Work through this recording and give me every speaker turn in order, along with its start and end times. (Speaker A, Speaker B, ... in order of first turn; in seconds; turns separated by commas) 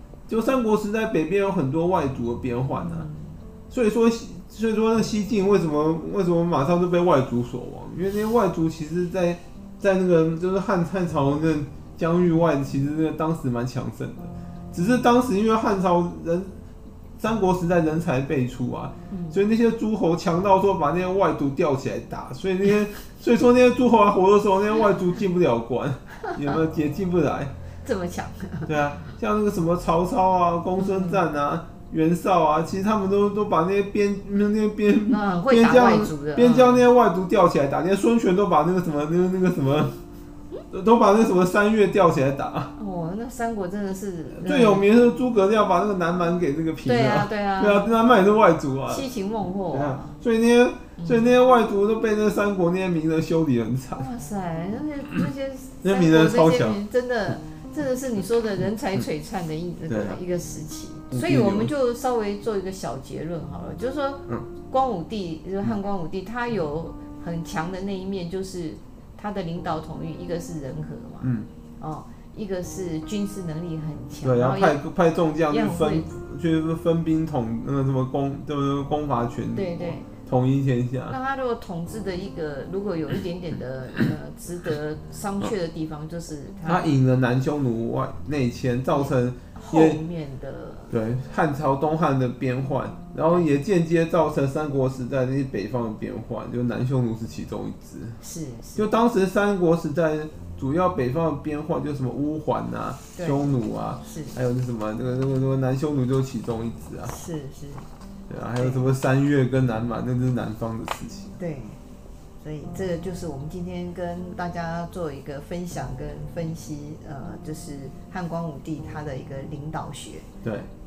Speaker A: 0.3-3.1, Speaker B: 2.8-3.4, Speaker A: 3.7-16.5, Speaker A: 17.2-27.5, Speaker B: 19.1-19.4, Speaker B: 26.3-26.6, Speaker B: 27.8-28.8, Speaker A: 28.7-40.0, Speaker B: 30.8-31.2, Speaker B: 35.1-36.9, Speaker A: 40.7-42.7, Speaker B: 42.8-44.9, Speaker A: 44.4-49.1, Speaker B: 46.8-48.3, Speaker B: 48.9-50.2, Speaker A: 49.7-54.1, Speaker B: 51.0-51.2, Speaker B: 54.0-74.8, Speaker A: 55.8-56.8, Speaker A: 59.9-60.2, Speaker A: 61.1-61.7, Speaker A: 71.2-71.5, Speaker A: 74.2-81.2, Speaker B: 75.5-76.1, Speaker B: 79.5-80.1, Speaker B: 81.1-86.9, Speaker A: 86.7-90.0, Speaker B: 88.9-91.0, Speaker A: 90.9-98.2, Speaker B: 98.2-98.9, Speaker A: 98.8-107.1, Speaker B: 103.2-103.4, Speaker B: 104.0-104.4, Speaker B: 107.1-107.9, Speaker A: 108.3-111.4, Speaker B: 108.6-108.9, Speaker B: 111.4-111.8, Speaker B: 112.4-120.3, Speaker A: 120.4-120.7